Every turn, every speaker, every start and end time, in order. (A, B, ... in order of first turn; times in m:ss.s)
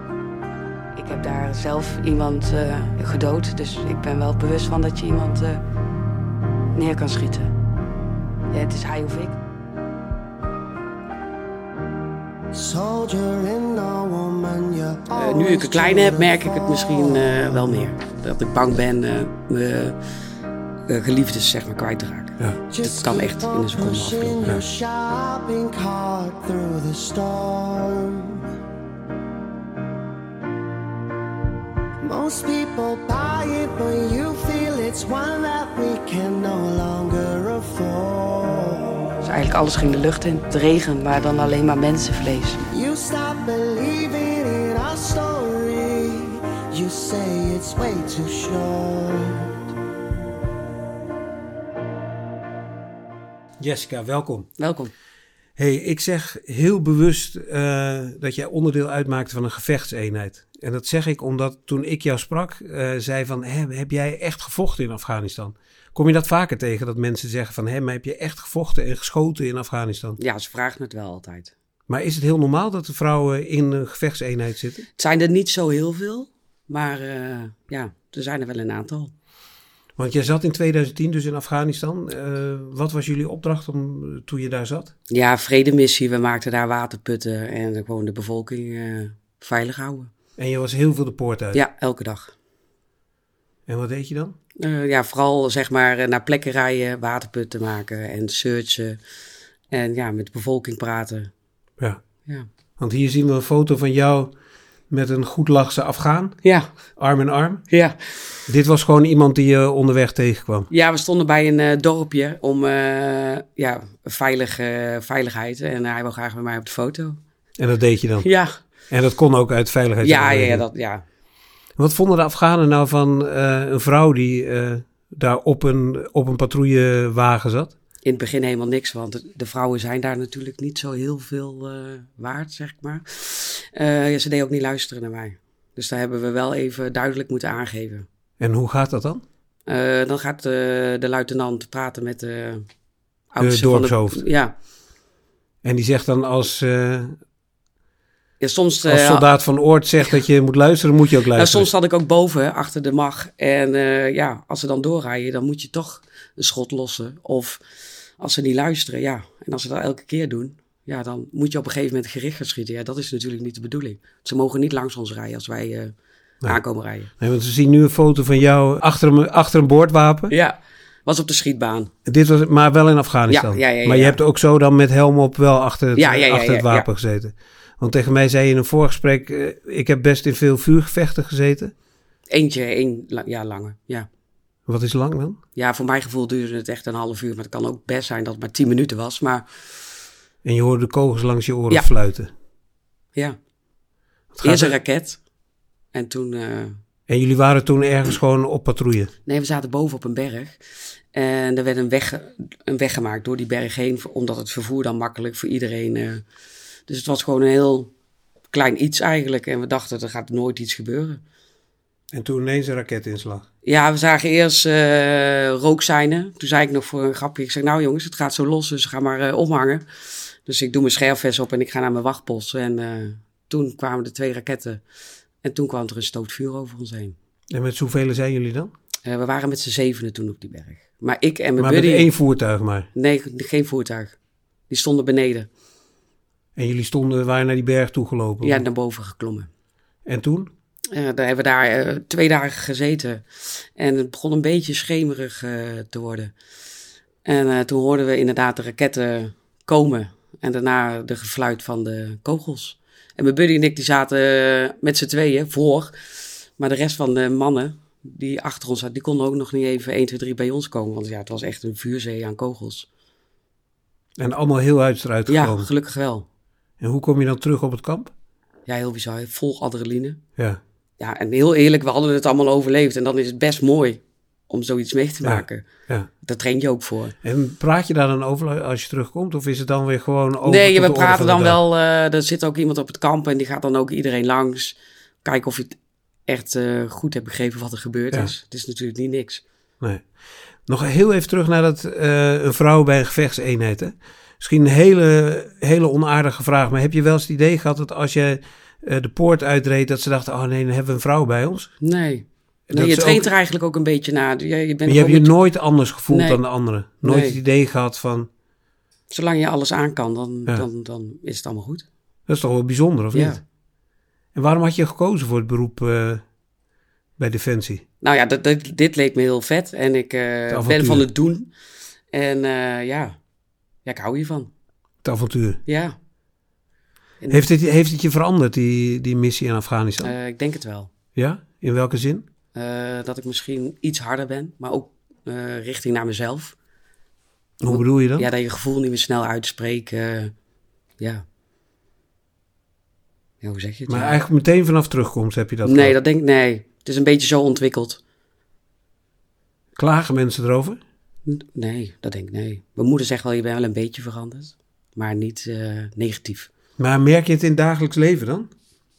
0:01.0-0:05.6 A
0:06.7-0:07.5 A
0:08.5-0:09.4 A
0:12.5-0:17.7 B
0:15.1-0:20.0 A
0:20.9-0:24.5 A
0:22.7-0:28.5 B
0:32.0-0:39.2 B
0:39.2-0:42.6 A
0:42.7-0:49.6 B
0:53.6-0:54.5 C
0:54.6-0:54.9 A
0:55.6-1:10.2 C
1:10.2-1:11.5 A
1:11.9-1:14.8 C
1:15.0-1:19.1 A
1:20.0-1:24.9 C
1:25.1-1:30.1 A
1:30.4-1:31.6 C
1:31.5-1:32.3 A
1:33.7-1:34.4 C
1:34.6-1:39.0 A
1:39.7-1:41.3 A
1:42.8-1:44.3 C
1:44.9-1:46.4 C
1:47.0-1:47.6 C
1:47.7-1:48.0 A
1:48.5-1:50.7 C
1:50.7-1:57.2 A
1:57.6-1:58.3 C
1:58.2-1:58.5 A
1:58.9-2:00.6 C
2:00.0-2:01.0 A
2:01.8-2:07.7 C
2:08.0-2:18.0 A
2:18.4-2:19.2 C
2:19.7-2:22.6 A
2:23.3-2:24.5 A
2:23.4-2:24.2 C
2:25.6-2:27.2 C
2:28.4-2:29.3 A
2:28.8-2:31.7 C
2:31.3-2:37.6 A
2:38.2-2:45.9 A
2:46.4-2:47.1 A
2:47.2-2:50.3 C
2:50.3-2:51.9 A
2:52.0-3:01.7 C
2:53.3-2:54.2 A
2:56.0-2:56.9 A
3:02.3-3:04.1 A
3:04.7-3:05.4 C
3:05.6-3:09.4 A
3:10.4-3:12.3 C
3:14.3-3:14.8 C
3:14.4-3:15.2 A
3:15.9-3:16.8 A
3:17.1-3:19.1 C
3:19.2-3:20.6 A
3:21.1-3:26.2 A
3:26.9-3:27.9 A
3:28.5-3:31.2 A
3:32.1-3:33.4 C
3:33.6-3:44.8 A
3:45.4-3:47.1 A
3:47.5-3:48.7 C
3:49.0-3:52.1 A
3:51.6-3:52.9 C
3:52.9-3:54.1 A
3:54.7-3:55.5 A
3:56.6-3:58.6 C
3:58.4-3:59.5 A
4:00.0-4:00.5 C
4:00.9-4:06.3 A
4:07.2-4:15.9 A
4:16.6-4:22.9 A
4:24.2-4:25.7 C
4:25.3-4:26.2 A
4:26.8-4:28.1 C
4:28.6-4:30.2 A
4:31.0-4:35.6 A
4:35.2-4:36.1 C
4:36.2-4:37.1 A
4:37.2-4:41.6 C
4:40.4-4:45.8 A
4:46.3-4:49.4 A
4:50.7-5:01.7 C
5:01.8-5:05.3 A
5:02.7-5:03.3 C
5:04.8-5:08.3 C
5:06.1-5:06.4 A
5:07.0-5:07.4 A
5:09.1-5:11.8 A
5:12.3-5:13.4 C
5:13.1-5:13.4 A
5:14.3-5:16.2 C
5:17.2-5:17.8 C
5:18.0-5:21.5 A
5:20.5-5:21.1 C
5:22.1-5:23.2 A
5:23.8-5:24.5 A
5:25.0-5:25.6 C
5:25.6-5:25.9 A
5:27.2-5:27.5 A
5:27.3-5:30.1 C
5:30.0-5:30.9 A
5:31.1-5:32.2 C
5:32.5-5:36.5 A
5:37.6-5:38.3 C
5:37.7-5:40.3 A
5:43.4-5:44.2 A
5:43.9-5:46.0 C
5:45.6-5:48.0 A
5:49.8-5:50.8 C
5:51.2-5:56.5 A
5:56.8-5:58.5 C